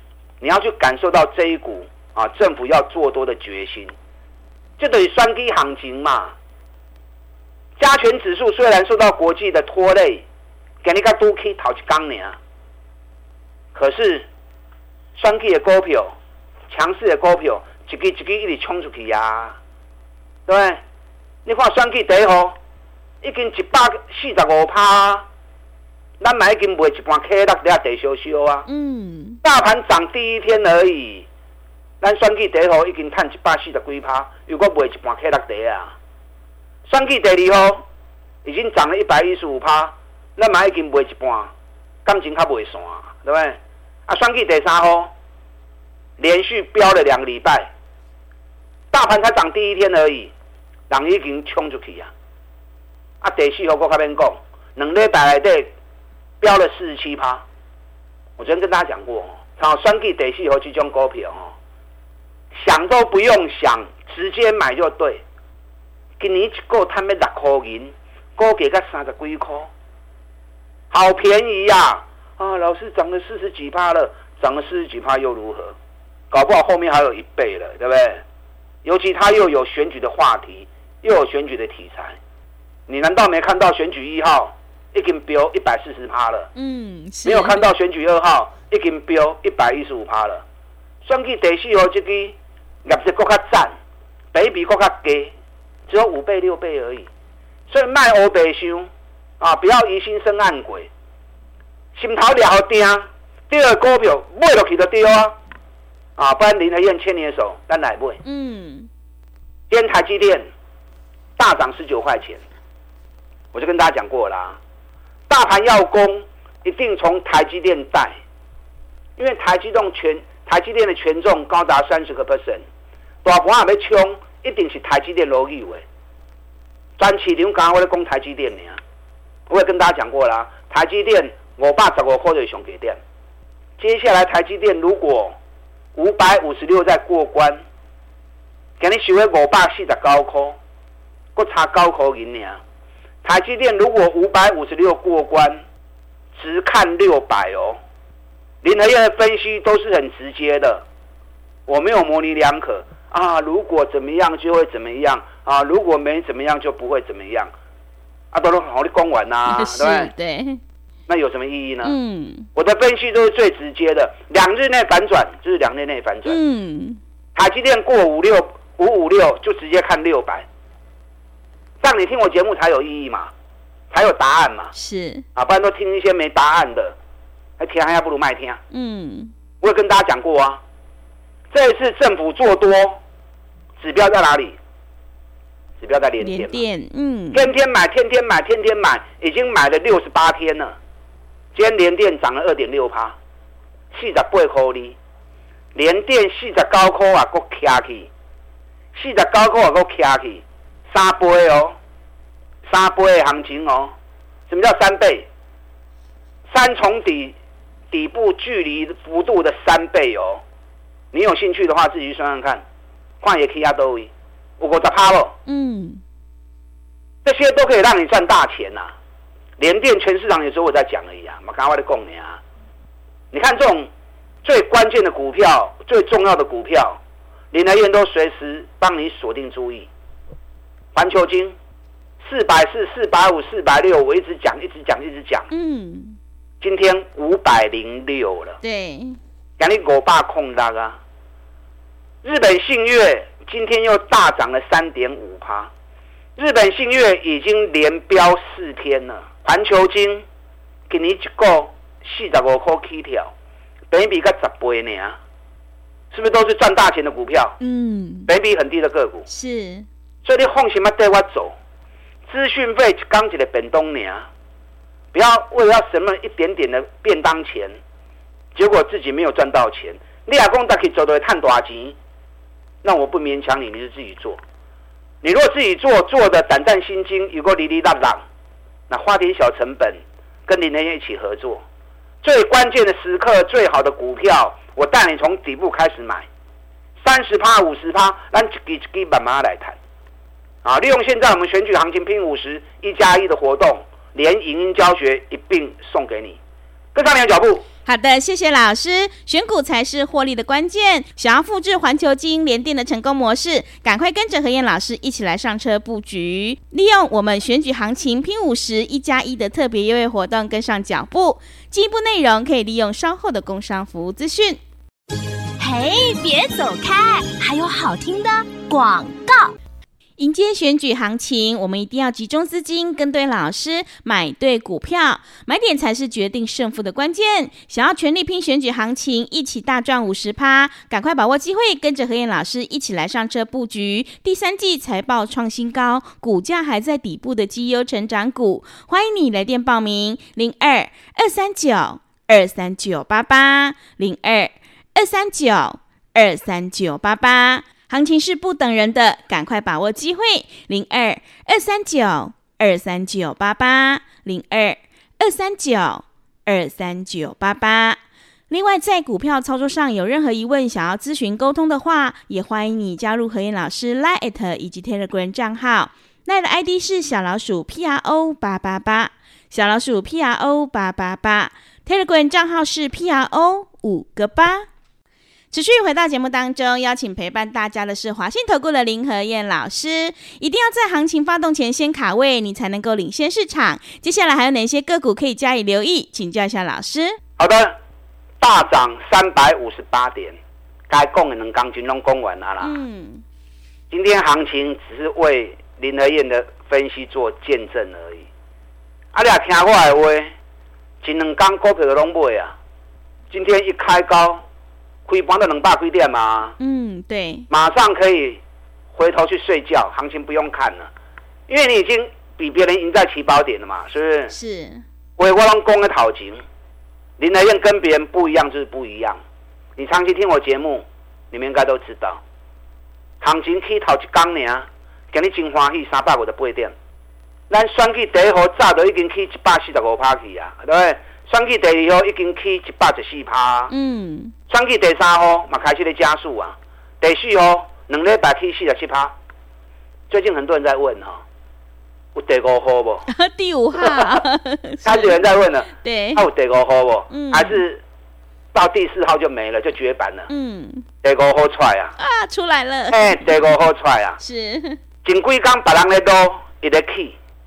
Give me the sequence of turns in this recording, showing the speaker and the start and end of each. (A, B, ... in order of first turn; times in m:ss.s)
0:00.4-0:03.9 A
0:04.8-0:06.3 A
0:07.8-0:10.2 A
0:10.8-0:12.4 A
0:13.7-0:14.2 A
0:15.2-0:16.1 A
0:16.7-0:19.6 A
0:20.5-0:20.8 A
0:21.4-0:22.6 A
0:23.2-0:25.2 A
0:26.2-0:28.6 A
0:28.7-0:29.4 B
0:29.4-0:31.3 A
0:32.0-0:36.0 A
0:36.9-0:37.8 A
0:38.4-0:41.5 A
0:42.0-0:45.1 A
0:46.2-0:47.7 A
0:48.9-0:50.3 A
0:50.9-0:52.1 A
0:53.2-0:55.7 A
0:56.4-0:57.4 A
0:58.4-1:01.5 A
1:02.5-1:05.2 A
1:06.2-1:09.7 A
1:10.9-1:15.7 A
1:16.3-1:18.2 A
1:18.8-1:22.2 A
1:22.9-1:26.5 A
1:26.6-1:27.6 B
1:27.2-1:30.4 A
1:31.0-1:33.7 A
1:34.3-1:35.3 A
1:35.9-1:37.1 A
1:37.7-1:38.9 A
1:39.4-1:40.9 A
1:41.9-1:45.4 A
1:46.2-1:48.2 A
1:48.2-1:48.9 B
1:49.7-1:50.4 A
1:51.4-1:52.4 A
1:53.5-1:54.6 A
1:55.3-1:58.2 A
1:59.2-2:02.6 A
2:03.2-2:05.8 A
2:07.0-2:08.8 A
2:09.5-2:13.0 A
2:13.8-2:15.4 A
2:15.9-2:17.6 A
2:18.8-2:20.6 A
2:21.3-2:22.6 A
2:23.2-2:25.6 A
2:26.3-2:27.8 A
2:28.6-2:30.8 A
2:31.7-2:37.5 A
2:38.3-2:40.1 A
2:39.5-2:40.6 B
2:41.1-2:41.9 A
2:41.8-2:42.5 B
2:42.6-2:46.4 A
2:46.2-2:47.0 B
2:47.4-2:50.4 A
2:51.8-2:53.3 A
2:53.9-2:54.7 A
2:54.7-2:55.2 B
2:55.4-2:57.0 A
2:57.6-2:58.6 A
2:58.7-2:59.3 B
2:59.6-3:00.6 A
3:01.5-3:03.0 A
3:03.8-3:04.6 A
3:05.8-3:06.6 A
3:06.2-3:07.5 B
3:07.3-3:10.7 A
3:11.5-3:13.2 A
3:13.9-3:15.0 A
3:15.7-3:18.1 A
3:18.9-3:21.8 A
3:22.7-3:23.9 A
3:24.5-3:25.3 A
3:26.5-3:27.3 A
3:27.9-3:30.4 A
3:31.1-3:32.6 A
3:33.2-3:35.4 A
3:35.5-3:36.0 B
3:37.2-3:38.9 A
3:39.6-3:42.4 A
3:43.3-3:43.9 A
3:44.4-3:47.0 A
3:47.5-3:49.9 A
3:50.9-3:51.6 A
3:52.2-3:55.5 A
3:55.5-3:56.2 B
3:56.6-3:58.6 A
3:58.6-3:59.2 B
3:59.6-4:01.0 A
4:02.2-4:05.7 A
4:06.4-4:10.2 A
4:10.9-4:13.3 A
4:13.9-4:15.2 A
4:16.1-4:17.6 A
4:17.6-4:18.3 B
4:18.3-4:19.3 A
4:19.3-4:19.8 B
4:20.2-4:21.5 A
4:22.3-4:24.3 A
4:25.1-4:27.8 A
4:28.5-4:32.0 A
4:32.8-4:34.4 A
4:35.2-4:38.2 A
4:38.9-4:41.6 A
4:42.2-4:46.3 A
4:47.0-4:49.8 A
4:50.6-4:56.4 A
4:56.9-4:57.6 A
4:57.8-5:14.6 B
5:15.6-5:19.5 C
5:20.2-5:58.0 B
5:58.5-6:14.7 B
6:15.5-6:27.2 B
6:27.4-6:27.8 A
6:28.4-6:30.4 A
6:30.9-6:32.8 A
6:32.6-6:33.2 B
6:33.9-6:38.3 A
6:39.1-6:40.3 A
6:41.0-6:42.5 A
6:43.3-6:44.4 A
6:45.1-6:46.6 A
6:46.6-6:47.5 B
6:47.5-6:48.4 A
6:48.9-6:50.9 A
6:51.5-6:54.3 A
6:54.3-6:54.8 B
6:55.2-6:56.4 A
6:57.2-6:59.2 A
6:59.8-7:02.2 A
7:03.2-7:06.7 A
7:07.5-7:13.7 A
7:13.7-7:14.3 B
7:14.5-7:19.1 A
7:20.1-7:21.2 A
7:22.1-7:23.1 A
7:23.1-7:26.2 B
7:23.8-7:24.2 A
7:24.8-7:27.8 A
7:27.1-7:27.6 B
7:28.5-7:30.3 A
7:30.3-7:30.8 B
7:31.0-7:31.9 A
7:32.0-7:33.4 B
7:32.9-7:34.2 A
7:34.2-7:34.8 B
7:35.0-7:37.2 A